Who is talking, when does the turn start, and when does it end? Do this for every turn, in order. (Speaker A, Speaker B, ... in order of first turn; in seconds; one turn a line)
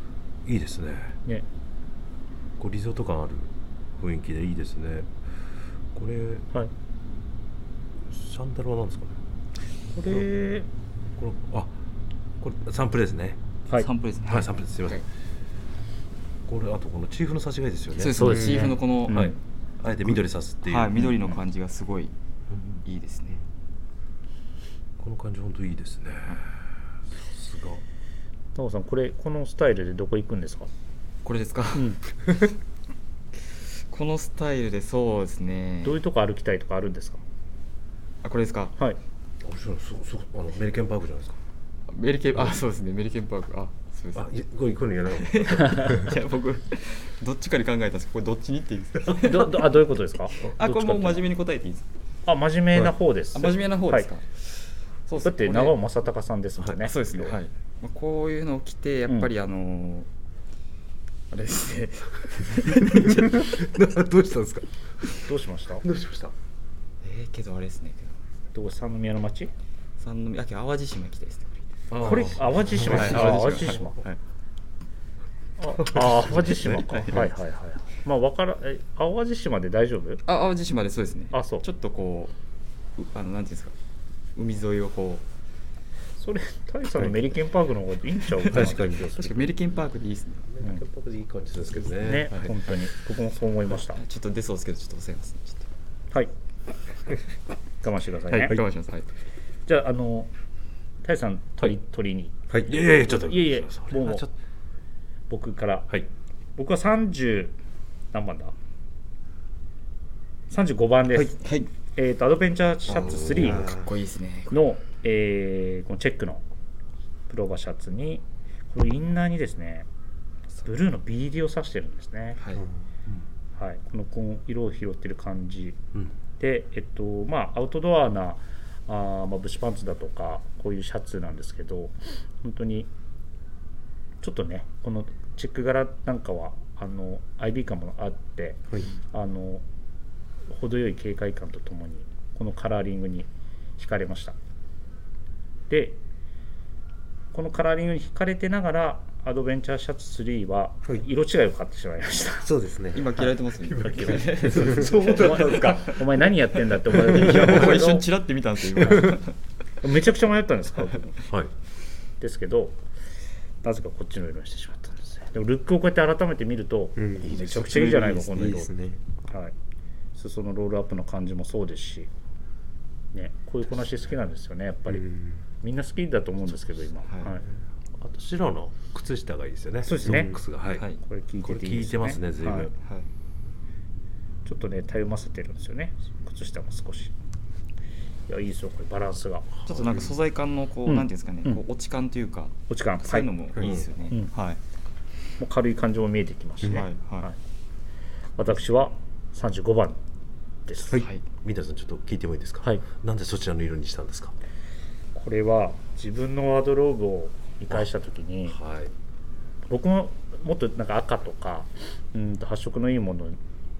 Speaker A: 0.4-1.2
Speaker A: 2.6-5.1
Speaker A: 5.9-6.5
Speaker A: 8.1-9.2
Speaker B: 9.9-10.7
Speaker A: 11.2-11.7
Speaker A: 12.4-13.4
Speaker C: 13.7-15.0
Speaker A: 14.2-15.0
Speaker A: 16.5-18.3
Speaker C: 17.9-19.3
Speaker B: 18.1-19.3
Speaker D: 18.2-18.7
Speaker A: 19.1-21.3
Speaker C: 20.1-22.1
Speaker A: 22.5-22.8
Speaker C: 22.8-23.4
Speaker A: 25.0-26.5
Speaker A: 27.2-27.8
Speaker B: 28.6-30.7
Speaker C: 31.2-32.4
Speaker C: 33.9-36.0
Speaker B: 35.8-37.2
Speaker C: 38.2-38.7
Speaker A: 39.4-41.4
Speaker C: 41.9-44.3
Speaker A: 44.1-46.0
Speaker C: 45.1-49.7
Speaker B: 49.1-51.2
Speaker C: 50.4-51.8
Speaker B: 52.2-54.1
Speaker C: 53.3-54.5
Speaker C: 55.1-55.8
Speaker B: 55.2-57.3
Speaker C: 56.8-60.1
Speaker C: 61.3-63.5
Speaker A: 63.3-65.3
Speaker B: 65.2-65.8
Speaker A: 65.8-66.3
Speaker C: 67.0-68.2
Speaker B: 68.5-69.5
Speaker C: 70.0-71.6
Speaker A: 71.9-73.9
Speaker B: 72.0-74.0
Speaker C: 72.7-74.2
Speaker B: 75.6-80.2
Speaker A: 75.8-77.2
Speaker C: 76.7-77.3
Speaker C: 80.2-82.3
Speaker B: 81.3-81.6
Speaker C: 83.0-83.7
Speaker C: 84.3-85.2
Speaker B: 86.2-89.5
Speaker C: 88.5-90.5
Speaker D: 88.5-89.1
Speaker A: 90.5-92.5
Speaker B: 91.8-94.0
Speaker C: 93.8-95.7
Speaker B: 97.8-98.6
Speaker C: 98.3-99.1
Speaker B: 99.7-100.3
Speaker B: 101.0-102.4
Speaker A: 102.7-104.3
Speaker B: 102.9-104.2
Speaker B: 105.3-105.9
Speaker B: 106.6-107.5
Speaker B: 108.1-108.5
Speaker B: 110.5-111.4
Speaker C: 111.4-111.7
Speaker B: 111.9-113.7
Speaker C: 112.9-114.6
Speaker D: 113.3-113.9
Speaker B: 114.5-116.4
Speaker B: 117.3-119.8
Speaker B: 120.6-122.4
Speaker B: 123.6-125.8
Speaker B: 126.4-132.9
Speaker B: 134.2-139.6
Speaker B: 140.5-144.3
Speaker B: 145.7-146.0
Speaker B: 147.3-152.5
Speaker D: 152.4-153.2
Speaker C: 152.9-156.0
Speaker B: 153.8-158.1
Speaker D: 154.4-154.8
Speaker A: 154.5-155.9
Speaker C: 156.9-159.3
Speaker B: 158.8-159.2
Speaker B: 159.8-161.2
Speaker B: 162.2-162.8
Speaker B: 163.6-168.7
Speaker D: 167.0-169.0
Speaker B: 169.3-169.5
Speaker B: 170.2-172.1
Speaker B: 173.1-177.4
Speaker D: 174.9-175.4
Speaker A: 178.0-180.8
Speaker B: 179.8-180.4
Speaker D: 180.0-180.4
Speaker C: 180.7-181.0
Speaker B: 181.0-182.7
Speaker A: 181.4-182.7
Speaker B: 184.4-187.1
Speaker B: 188.3-189.5
Speaker C: 189.7-194.6
Speaker B: 190.9-191.6
Speaker B: 192.7-193.3
Speaker A: 193.6-193.9
Speaker B: 195.4-197.4
Speaker C: 196.6-197.3
Speaker B: 198.4-200.0
Speaker B: 200.7-201.0
Speaker C: 200.9-201.2
Speaker A: 201.4-204.3
Speaker B: 205.1-208.6
Speaker A: 208.5-208.9
Speaker B: 209.7-213.4